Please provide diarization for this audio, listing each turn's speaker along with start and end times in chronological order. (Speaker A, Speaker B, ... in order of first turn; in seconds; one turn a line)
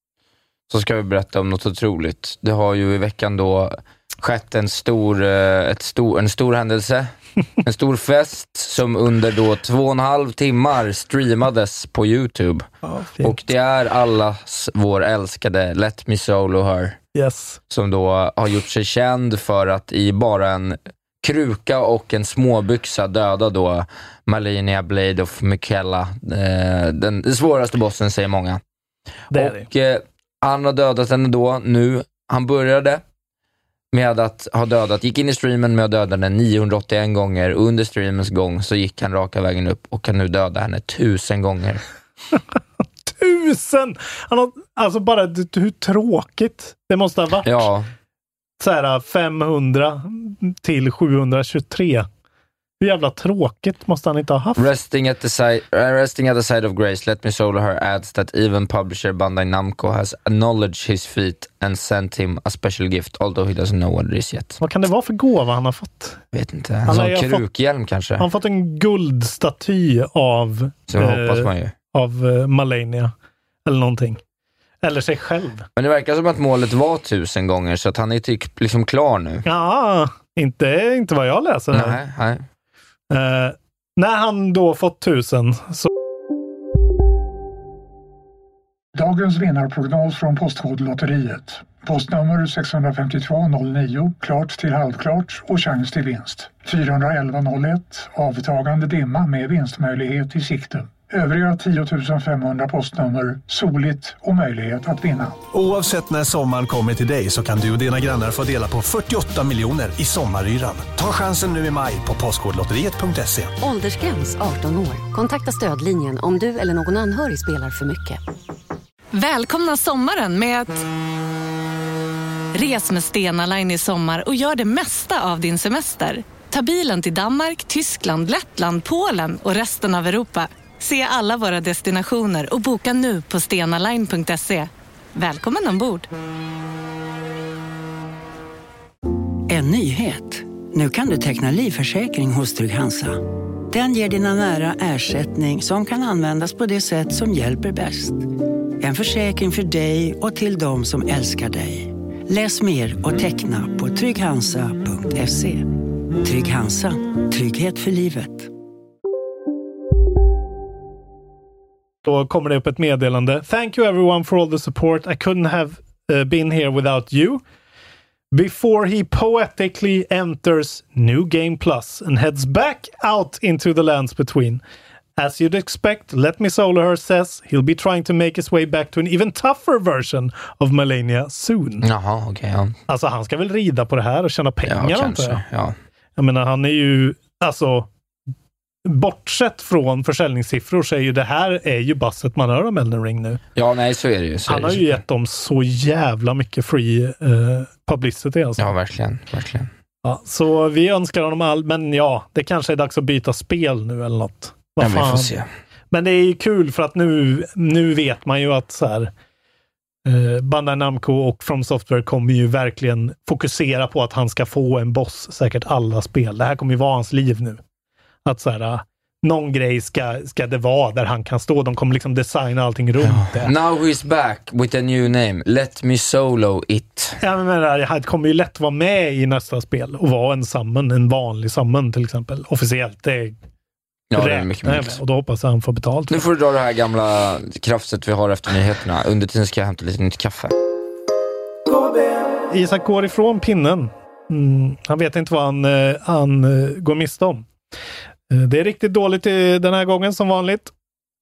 Speaker A: 0.7-12.7
Speaker B: 12.8-13.4
Speaker A: 13.2-17.0
Speaker B: 17.1-17.6
Speaker A: 17.7-28.6
Speaker B: 29.3-29.7
Speaker A: 29.3-33.0
Speaker A: 33.9-41.8
Speaker B: 43.1-47.6
Speaker A: 47.4-47.9
Speaker B: 48.6-52.1
Speaker B: 52.8-54.7
Speaker A: 54.6-64.6
Speaker B: 64.6-66.2
Speaker A: 66.3-68.3
Speaker B: 66.9-67.5
Speaker B: 68.2-73.1
Speaker A: 70.9-71.7
Speaker B: 73.7-74.2
Speaker B: 74.8-75.7
Speaker A: 75.8-79.5
Speaker B: 79.5-82.0
Speaker A: 81.7-82.5
Speaker B: 83.1-85.9
Speaker C: 88.9-105.4
Speaker D: 105.5-113.5
Speaker E: 113.6-118.2
Speaker F: 119.1-120.8
Speaker F: 122.5-136.1
Speaker G: 139.5-148.3
Speaker G: 148.8-158.5
Speaker B: 162.0-167.4
Speaker B: 168.3-174.6
Speaker B: 175.2-181.9
Speaker A: 181.8-182.8
Speaker B: 182.9-185.4
Speaker A: 184.7-185.8
Speaker B: 186.2-187.9
Speaker B: 188.8-193.4
Speaker A: 193.6-195.0
Speaker B: 194.5-198.7
Speaker A: 198.6-199.7
Speaker B: 200.0-205.3
Speaker A: 204.8-205.5
Speaker B: 205.9-209.1
Speaker B: 210.1-217.6
Speaker B: 218.2-223.5
Speaker A: 223.0-227.2
Speaker B: 227.2-233.4
Speaker A: 234.1-235.0
Speaker B: 234.2-236.2
Speaker A: 236.1-240.5
Speaker B: 242.5-247.5
Speaker B: 248.3-250.7